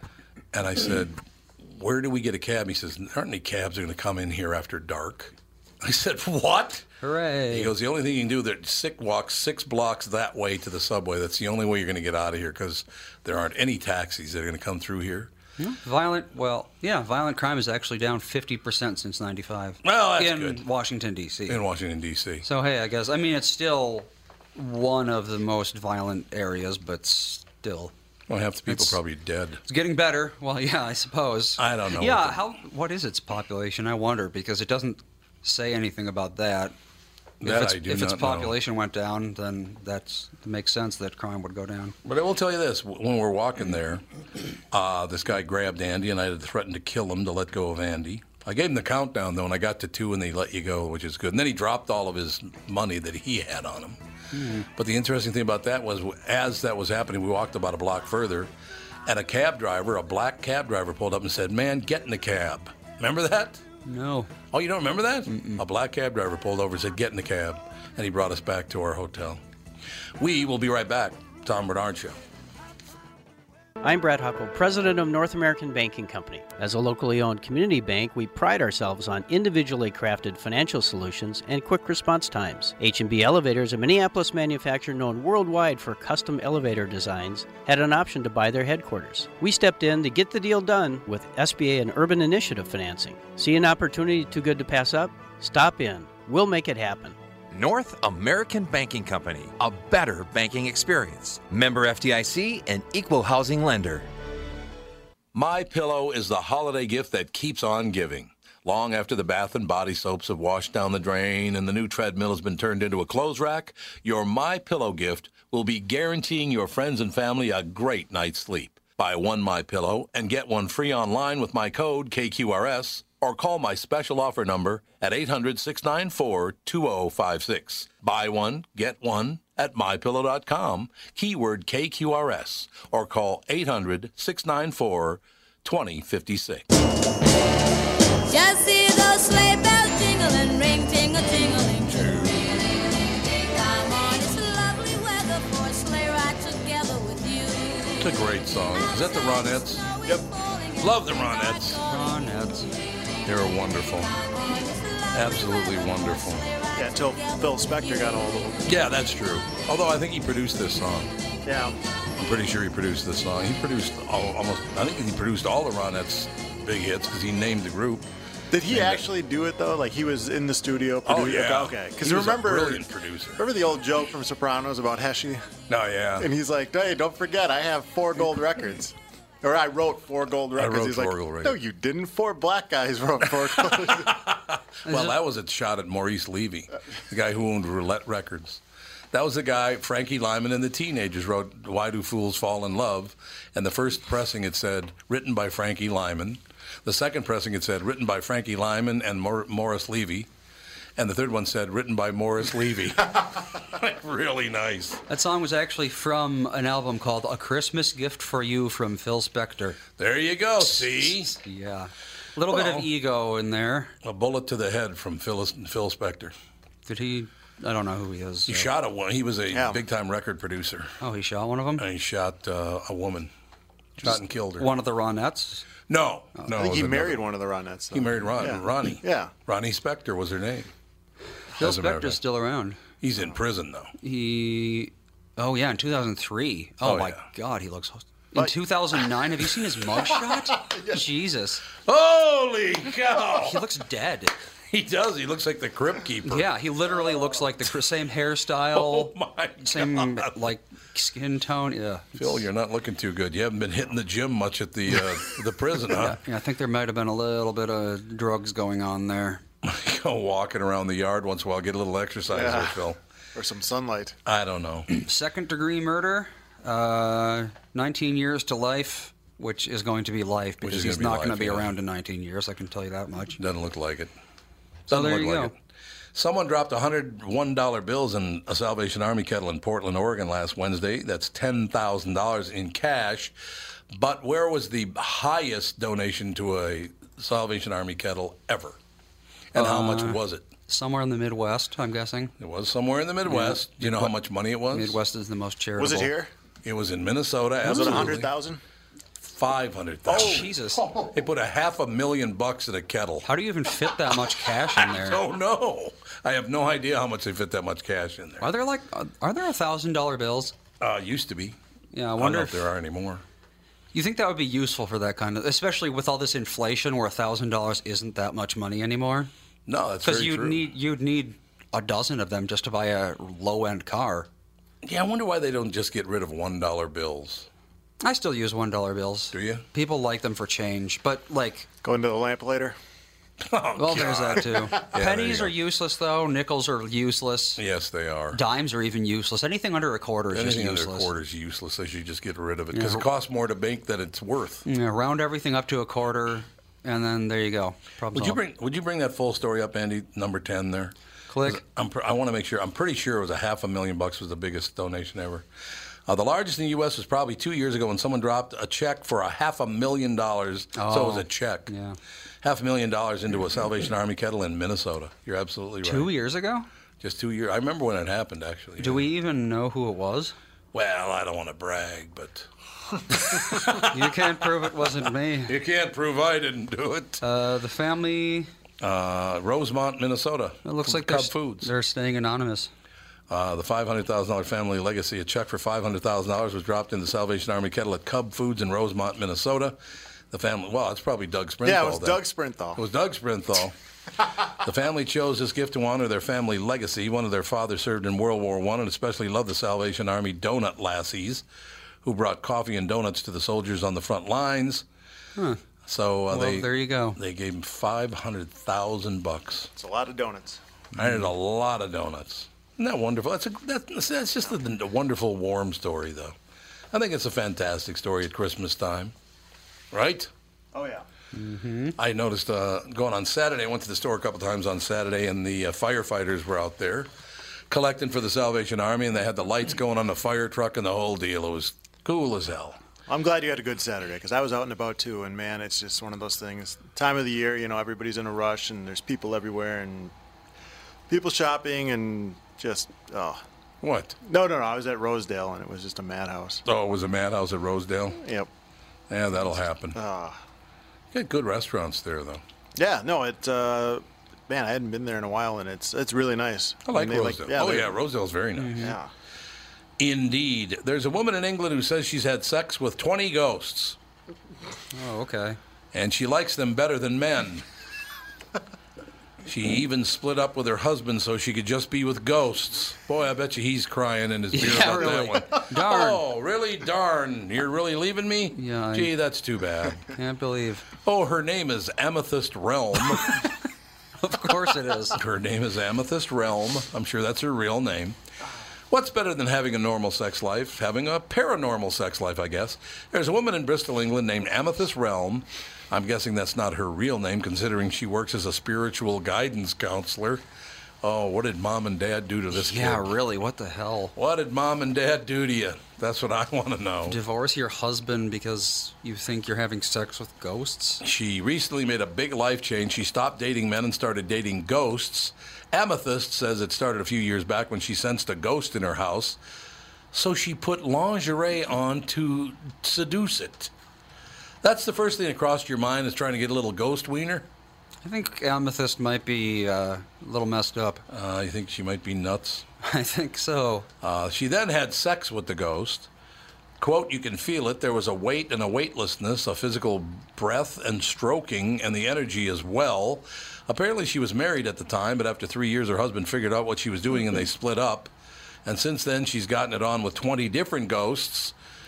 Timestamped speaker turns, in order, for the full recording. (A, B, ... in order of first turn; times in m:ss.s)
0:00.5-0:06.9 A
0:07.0-0:07.7 B
0:07.5-0:15.3 A
0:15.6-0:21.6 B
0:19.8-0:20.6 A
0:21.5-0:22.4 A
0:22.4-0:27.9 B
0:28.3-0:29.6 A
0:28.7-0:29.0 B
0:29.6-0:36.7 B
0:31.6-0:32.4 A
0:37.4-0:38.6 A
0:37.4-0:42.0 B
0:42.0-0:44.0 A
0:44.7-0:54.0 A
0:54.3-0:54.6 B
0:54.7-0:58.5 A
0:59.0-1:03.6 A
1:03.8-1:04.3 B
1:04.5-1:09.4 A
1:05.3-1:05.6 B
1:10.2-1:12.2 A
1:13.8-1:37.2 C
1:37.5-1:44.1 D
1:45.3-2:16.7 A
2:18.3-2:28.1 E
2:28.0-2:30.1 A
2:28.7-2:32.4 E
2:30.8-2:31.8 A
2:31.9-2:32.7 B
2:33.2-2:34.2 A
2:33.9-2:38.3 E
2:35.1-2:36.5 A
2:36.8-2:38.6 F
2:38.6-2:41.1 A
2:41.4-2:41.7 F
2:42.2-2:48.1 A
2:48.5-2:52.8 F
2:48.7-2:49.0 A
2:51.0-2:53.4 A
2:53.4-2:55.5 F
2:55.7-2:56.3 A
2:56.2-3:04.2 F
3:00.6-3:01.6 A
3:03.5-3:08.6 A
3:04.8-3:05.2 B
3:09.1-3:20.3 A
3:21.0-3:25.0 A
3:25.1-3:29.8 B
3:30.0-3:31.3 A
3:31.0-3:33.9 B
3:32.5-3:32.9 A
3:34.0-3:36.3 A
3:36.8-3:38.7 B
3:38.5-3:40.9 A
3:39.5-3:39.8 F
3:41.0-3:41.8 B
3:41.8-3:43.3 A
3:44.0-3:44.7 A
3:44.0-3:45.6 B
3:45.9-3:47.2 A
3:46.5-3:49.3 F
3:47.9-3:50.7 A
3:51.6-3:52.2 A
3:51.6-3:52.8 B
3:53.0-3:53.9 A
3:54.0-4:01.6 B
3:56.8-3:57.2 A
4:01.8-4:03.6 A
4:03.4-4:04.3 B
4:04.7-4:06.5 A
4:06.2-4:12.4 B
4:08.7-4:10.5 A
4:12.2-4:16.2 A
4:15.9-4:19.4 B
4:19.6-4:23.0 A
4:22.3-4:22.8 F
4:23.3-4:24.2 F
4:24.2-4:24.9 A
4:24.9-4:33.4 B
4:30.6-4:31.7 A
4:33.4-4:34.1 A
4:34.9-4:35.6 A
4:34.9-4:35.5 B
4:36.1-4:43.3 A
4:43.9-4:48.8 A
4:49.5-4:50.5 A
4:49.5-4:52.3 B
4:52.4-4:55.0 A
4:53.2-4:54.1 B
4:54.7-4:56.1 B
4:55.8-4:56.3 F
4:56.6-4:58.3 A
4:57.6-4:58.6 F
4:59.2-5:03.3 A
5:00.1-5:00.8 B
5:03.2-5:05.2 B
5:04.0-5:08.5 A
5:08.4-5:10.5 B
5:10.8-5:11.6 A
5:11.9-5:12.7 B
5:12.2-5:13.2 A
5:13.9-5:19.3 B
5:19.6-5:20.6 A
5:20.0-5:24.3 B
5:24.8-5:27.5 A
5:28.0-5:31.7 B
5:29.3-5:29.6 A
5:31.8-5:32.8 F
5:33.4-5:35.5 A
5:33.8-5:37.6 B
5:34.0-5:34.9 F
5:37.6-5:38.4 A
5:38.3-5:41.1 B
5:40.3-5:44.6 A
5:42.7-5:43.0 B
5:44.6-5:48.4 B
5:48.1-5:55.4 A
5:51.3-5:51.6 B
5:56.1-6:01.7 A
6:00.7-6:02.0 B
6:02.4-6:06.1 A
6:05.8-6:06.7 B
6:07.0-6:09.1 A
6:08.8-6:10.4 B
6:10.7-6:12.5 A
6:13.1-6:14.3 A
6:13.6-6:15.5 B
6:15.4-6:17.2 A
6:17.2-6:18.5 B
6:18.8-6:21.7 A
6:20.6-6:22.7 B
6:23.3-6:29.8 A
6:30.3-6:32.2 A
6:31.6-6:32.8 F
6:32.8-6:33.7 A
6:34.5-6:41.4 A
6:42.0-6:44.8 A
6:45.4-6:45.6 B
6:45.8-6:49.7 A
6:46.3-6:47.2 B
6:49.8-6:50.6 F
6:50.9-6:56.3 A
6:56.9-6:59.1 A
6:59.9-7:00.3 A
7:00.7-7:01.0 F
7:01.3-7:02.0 B
7:02.0-7:07.1 A
7:07.7-7:12.8 A
7:13.1-7:20.1 F
7:21.1-7:23.4 F
7:23.8-7:24.2 A
7:24.2-7:26.6 F
7:26.6-7:28.2 A
7:28.2-7:28.5 F
7:29.1-7:30.0 A
7:29.9-7:30.4 F
7:31.1-7:32.4 A
7:32.8-7:37.9 F
7:36.8-7:38.9 A
7:38.6-7:39.0 B
7:38.8-7:39.1 F
7:40.0-7:44.0 A
7:44.9-7:45.6 B
7:45.9-7:47.6 A
7:49.4-8:00.1 A
7:54.5-7:56.2 B
7:58.5-7:59.1 B
8:00.1-8:00.9 B
8:01.0-8:03.5 A
8:04.2-8:05.2 B
8:05.1-8:08.2 A
8:08.9-8:20.4 A
8:21.0-8:23.1 A
8:22.5-8:24.1 B
8:24.1-8:27.2 A
8:27.1-8:31.0 B
8:31.0-8:39.4 A
8:40.1-8:43.7 A
8:44.6-8:47.5 A
8:48.0-8:51.0 B
8:51.1-8:52.6 A
8:52.8-8:53.9 B
8:54.0-8:56.1 A
8:56.8-9:08.1 A
9:08.6-9:11.5 A